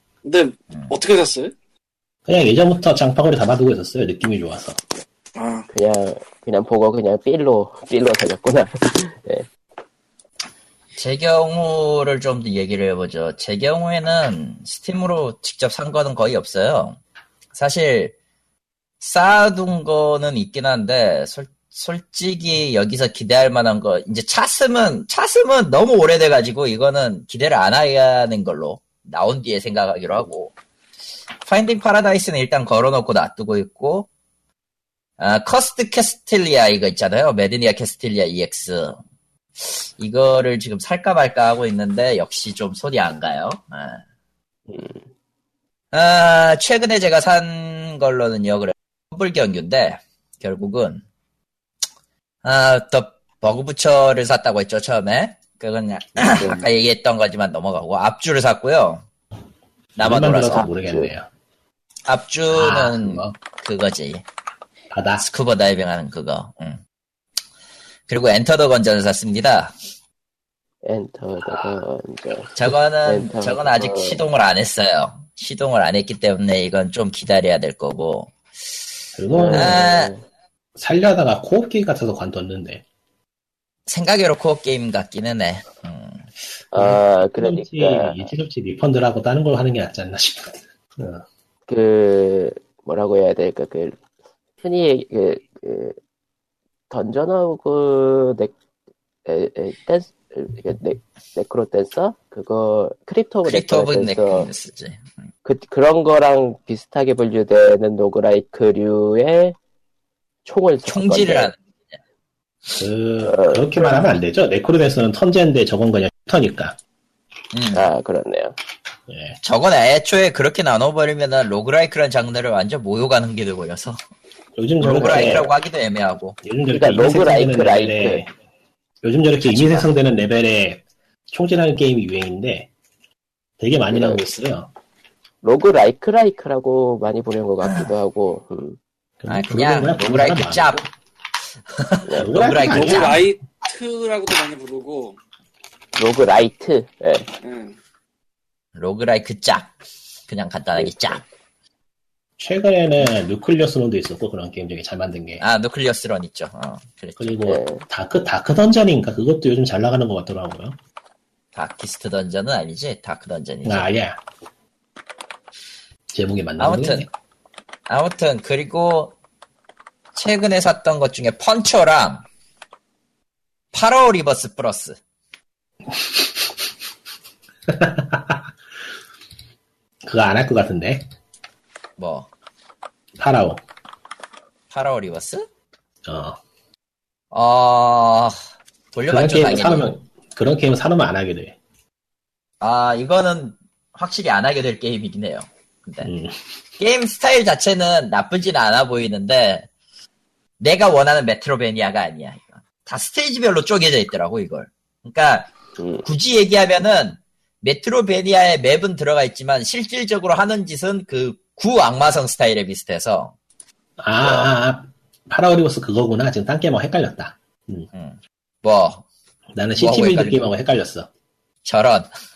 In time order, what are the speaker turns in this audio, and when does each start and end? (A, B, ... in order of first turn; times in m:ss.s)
0:00.2-0:01.5 A
0:02.2-0:04.8 B
0:05.4-0:05.6 A
0:05.7-0:09.5 C
0:11.0-0:17.0 D
0:17.5-0:18.1 D
0:19.0-0:30.5 D
0:31.4-0:34.1 D
0:35.2-0:39.0 D
0:39.6-0:44.0 D
0:44.7-0:45.0 C
0:45.9-0:51.0 D
0:52.4-0:59.0 D
0:56.2-0:56.6 B
1:00.0-1:00.7 D
1:00.0-1:01.3 B
1:00.6-1:01.1 C
1:02.0-1:04.2 D
1:02.5-1:03.3 B
1:04.9-1:05.2 B
1:05.2-1:06.8 D
1:08.1-1:09.7 D
1:10.8-1:12.5 C
1:11.4-1:11.8 B
1:12.6-1:18.3 D
1:13.0-1:14.2 C
1:19.2-1:19.9 B
1:19.3-1:20.2 C
1:19.5-1:20.1 D
1:20.8-1:22.8 B
1:23.9-1:26.3 D
1:26.7-1:28.3 C
1:26.7-1:31.2 B
1:31.7-1:34.0 C
1:34.6-1:36.0 C
1:36.9-1:38.5 C
1:39.2-1:44.5 C
1:43.4-1:45.0 D
1:45.4-1:49.6 C
1:50.4-1:51.5 C
1:50.8-1:51.9 D
1:52.7-1:56.8 B
1:53.2-1:54.0 C
1:57.5-1:57.9 D
1:57.7-1:58.5 C
1:59.1-1:59.4 B
1:59.4-2:04.0 D
2:04.6-2:05.5 B
2:04.8-2:06.4 D
2:06.4-2:08.3 B
2:06.7-2:08.2 C
2:09.0-2:12.7 B
2:09.4-2:09.9 D
2:13.6-2:14.7 B
2:13.9-2:14.2 C
2:15.4-2:18.8 C
2:19.2-2:20.8 B
2:19.3-2:20.8 D
2:21.7-2:23.3 D
2:22.0-2:22.3 C
2:22.2-2:23.2 B
2:22.6-2:25.2 A
2:26.0-2:27.3 C
2:27.4-2:27.8 A
2:28.8-2:29.7 D
2:30.3-2:31.2 D
2:30.8-2:31.2 C
2:32.4-2:35.4 B
2:35.4-2:37.4 D
2:37.2-2:40.8 B
2:37.4-2:37.8 C
2:41.5-2:43.9 D
2:43.6-2:44.2 B
2:46.1-2:47.1 B
2:46.6-2:47.1 D
2:47.9-2:49.1 D
2:50.1-2:52.2 D
2:53.7-2:55.0 D
2:55.9-2:56.2 B
2:57.7-2:58.4 B
3:00.0-3:01.1 B
3:02.0-3:02.3 D
3:03.2-3:03.6 B
3:04.7-3:05.4 D
3:06.0-3:06.4 B
3:07.3-3:08.4 D
3:08.9-3:09.9 D
3:09.1-3:11.6 B
3:12.6-3:16.1 D
3:16.0-3:16.3 B
3:16.8-3:19.7 D
3:20.6-3:25.5 D
3:25.8-3:26.0 C
3:26.0-3:33.3 D
3:34.0-3:37.9 B
3:37.9-3:39.0 D
3:39.6-3:41.1 B
3:39.8-3:40.5 D
3:41.6-3:42.1 D